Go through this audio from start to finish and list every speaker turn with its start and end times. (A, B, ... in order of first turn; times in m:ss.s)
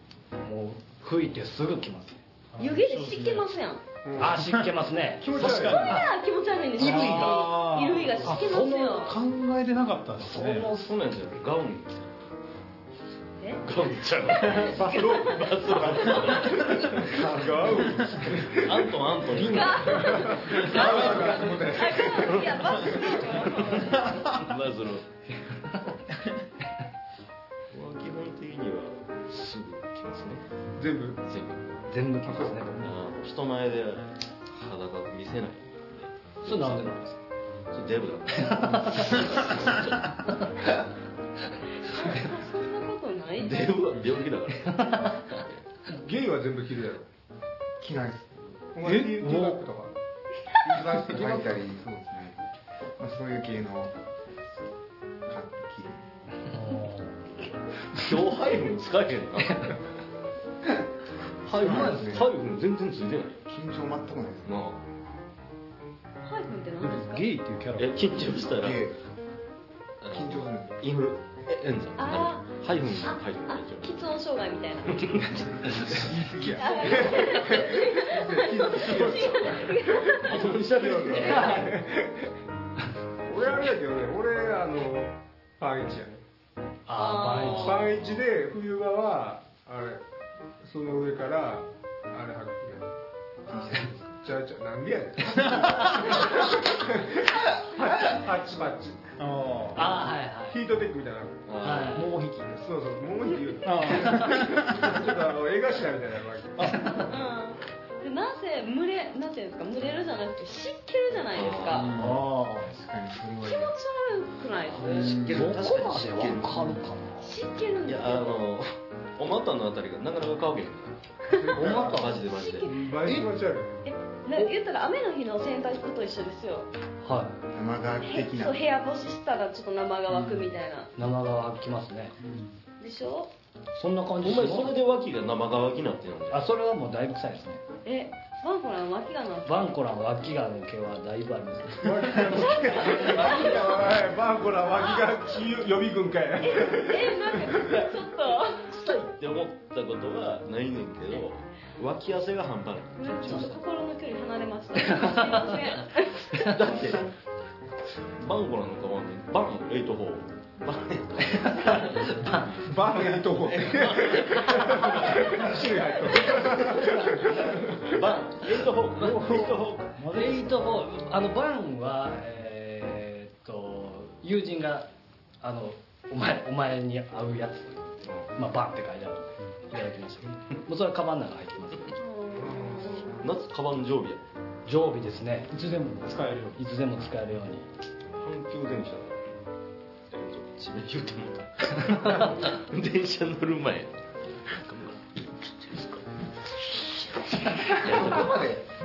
0:00.4-0:02.2 A
0:02.5-0:03.5 B
0:02.6-0:03.8 C
0:04.0-0:04.4 D
0:04.2-0:06.0 A
0:04.4-0:04.7 B
0:05.2-0:06.0 D
0:05.3-0:06.1 B
0:05.6-0:09.2 C
0:06.8-0:07.6 A
0:06.8-0:10.7 B
0:08.2-0:09.1 A
0:10.2-0:10.9 A
0:10.7-0:12.1 E
0:13.4-0:16.7 C
0:13.6-0:17.3 E
0:14.7-0:23.1 D
0:18.4-0:22.6 E
0:19.3-0:24.4 C
0:23.5-0:25.1 E
0:27.7-0:30.4 E
0:30.8-0:31.2 D
0:31.2-0:31.8 E
0:31.9-0:32.9 A
0:32.8-0:37.2 E
0:36.4-0:37.0 A
0:37.7-0:40.1 E
0:38.3-0:39.3 A
0:41.8-0:43.7 C
0:43.4-0:45.6 E
0:45.9-0:47.1 D
0:47.8-0:48.5 F
0:48.7-0:49.9 D
0:48.8-0:49.6 B
0:50.6-0:51.6 D
0:50.8-0:52.4 F
0:53.0-0:53.9 F
0:55.2-0:56.0 F
0:56.6-0:57.0 A
0:57.9-0:59.8 E
1:01.4-1:03.5 E
1:01.5-1:02.3 F
1:01.5-1:02.2 A
1:03.5-1:04.5 F
1:04.4-1:04.8 E
1:06.2-1:07.3 C
1:06.8-1:08.0 B
1:07.8-1:08.8 E
1:08.5-1:09.0 F
1:10.0-1:13.9 E
1:10.1-1:10.8 F
1:12.0-1:15.6 C
1:14.9-1:17.4 E
1:15.9-1:22.3 D
1:16.5-1:20.5 C
1:19.0-1:21.7 E
1:23.2-1:26.2 D
1:26.9-1:27.9 A
1:27.0-1:27.9 C
1:27.6-1:30.0 D
1:30.6-1:32.9 D
1:33.9-1:39.0 D
1:39.2-1:40.0 B
1:39.7-1:40.6 A
1:40.5-1:41.4 D
1:41.4-1:42.0 E
1:41.6-1:42.2 A
1:42.0-1:42.6 B
1:42.6-1:46.8 D
1:43.6-1:44.9 B
1:46.6-1:46.9 B
1:46.9-1:51.9 C
1:51.3-1:51.9 E
1:51.7-1:52.2 B
1:51.9-1:52.7 A
1:52.6-1:53.7 F
1:53.4-1:55.3 C
1:54.7-1:56.8 E
1:55.1-1:55.4 B
1:55.2-1:57.3 A
1:57.2-1:58.4 C
1:57.8-2:02.7 E
2:01.3-2:02.9 C
2:01.3-2:02.1 D
2:01.6-2:02.2 A
2:02.7-2:03.9 D
2:03.8-2:06.7 C
2:07.0-2:07.4 A
2:07.5-2:08.6 F
2:08.0-2:10.9 C
2:11.0-2:12.2 A
2:12.2-2:12.5 B
2:12.8-2:13.3 C
2:13.7-2:14.7 A
2:14.2-2:16.5 E
2:16.3-2:17.6 A
2:17.8-2:19.7 C
2:19.4-2:22.3 A
2:21.8-2:27.8 D
2:22.3-2:23.9 C
2:26.4-2:28.6 C
2:28.6-2:33.6 E
2:33.0-2:36.5 C
2:36.4-2:37.1 E
2:38.2-2:47.0 E
2:42.6-2:48.1 D
2:47.8-2:50.0 E
2:50.0-2:54.9 A
2:55.4-3:02.0 A
3:02.0-3:03.2 C
3:02.4-3:03.1 D
3:03.2-3:04.2 E
3:04.6-3:06.0 A
3:05.5-3:06.6 B
3:06.5-3:07.7 A
3:08.2-3:09.3 E
3:10.1-3:13.9 E
3:14.4-3:18.6 E
3:17.8-3:18.6 F